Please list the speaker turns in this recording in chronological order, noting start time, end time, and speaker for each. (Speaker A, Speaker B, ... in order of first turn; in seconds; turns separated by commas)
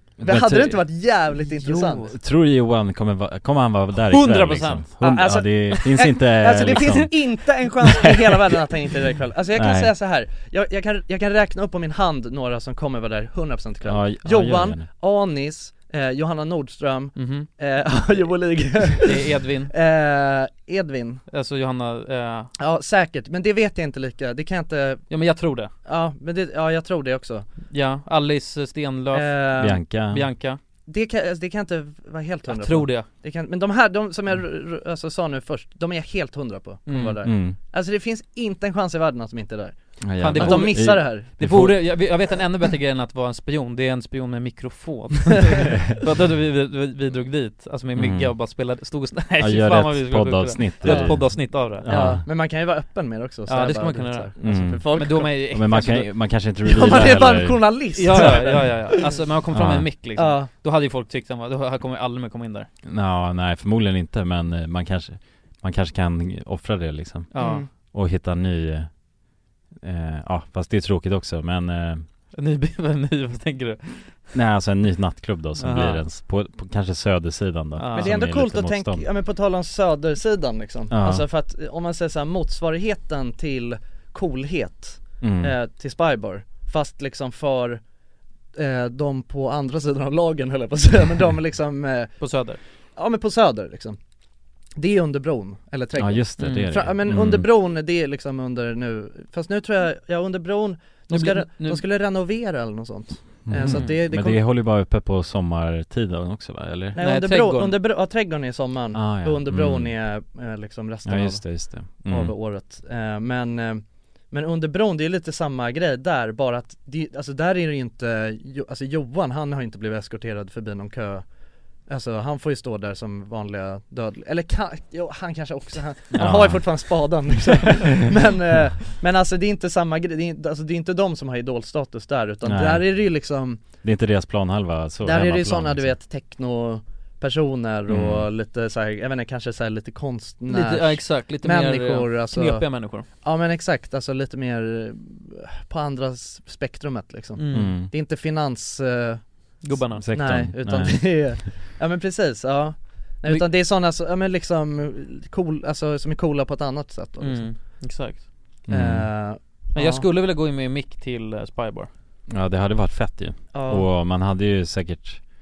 Speaker A: 0.2-0.9, Speaker B: 0.2-2.1, Speaker C: 1.6-2.1, Speaker A: 1.6-8.6, Speaker C: 4.0-5.0, Speaker B: 5.0-21.2, Speaker C: 5.7-6.1, Speaker A: 9.5-9.9, Speaker A: 13.8-14.9, Speaker C: 17.1-17.5, Speaker C: 19.0-19.7, Speaker C: 21.3-22.5, Speaker B: 22.6-25.0, Speaker C: 25.1-25.7, Speaker B: 25.8-27.5, Speaker C: 27.7-30.6, Speaker B: 29.1-29.8, Speaker A: 29.6-30.3, Speaker B: 30.9-41.4, Speaker C: 32.5-33.1, Speaker C: 36.9-37.2, Speaker A: 37.2-37.6, Speaker A: 40.0-41.8, Speaker C: 40.2-51.9, Speaker A: 45.7-46.0, Speaker A: 47.9-48.3, Speaker A: 49.4-52.2, Speaker B: 50.8-55.4, Speaker C: 53.5-56.1, Speaker A: 54.4-58.5, Speaker B: 56.6-59.2, Speaker C: 56.8-57.1, Speaker C: 57.9-62.7, Speaker A: 59.5-59.9, Speaker B: 60.2-60.5, Speaker A: 62.9-68.9, Speaker C: 67.3-67.7, Speaker B: 67.4-67.7, Speaker A: 69.8-72.1, Speaker C: 72.3-74.2, Speaker A: 74.3-79.0, Speaker C: 75.6-76.0, Speaker C: 77.8-78.2, Speaker B: 77.9-87.8, Speaker A: 80.9-81.2, Speaker A: 85.2-85.5, Speaker B: 88.5-92.2, Speaker C: 92.2-92.6, Speaker B: 93.0-94.0, Speaker B: 94.8-104.4, Speaker A: 96.0-97.5, Speaker C: 96.4-96.9, Speaker C: 101.1-101.8, Speaker A: 103.5-107.0, Speaker C: 103.6-103.9, Speaker B: 106.9-121.2, Speaker C: 107.0-107.8, Speaker A: 108.9-109.9, Speaker A: 111.0-112.3, Speaker B: 121.9-133.6, Speaker A: 126.1-127.9, Speaker A: 132.4-132.8, Speaker A: 133.8-135.9, Speaker B: 135.0-149.2, Speaker A: 137.9-138.3, Speaker C: 140.5-143.1, Speaker C: 147.4-147.8, Speaker A: 147.5-147.9, Speaker C: 149.6-150.1, Speaker A: 149.9-151.3, Speaker B: 150.1-157.5, Speaker C: 157.2-158.2, Speaker A: 158.7-159.1, Speaker B: 158.7-160.0, Speaker C: 159.7-161.9, Speaker A: 162.3-165.2, Speaker B: 163.5-163.9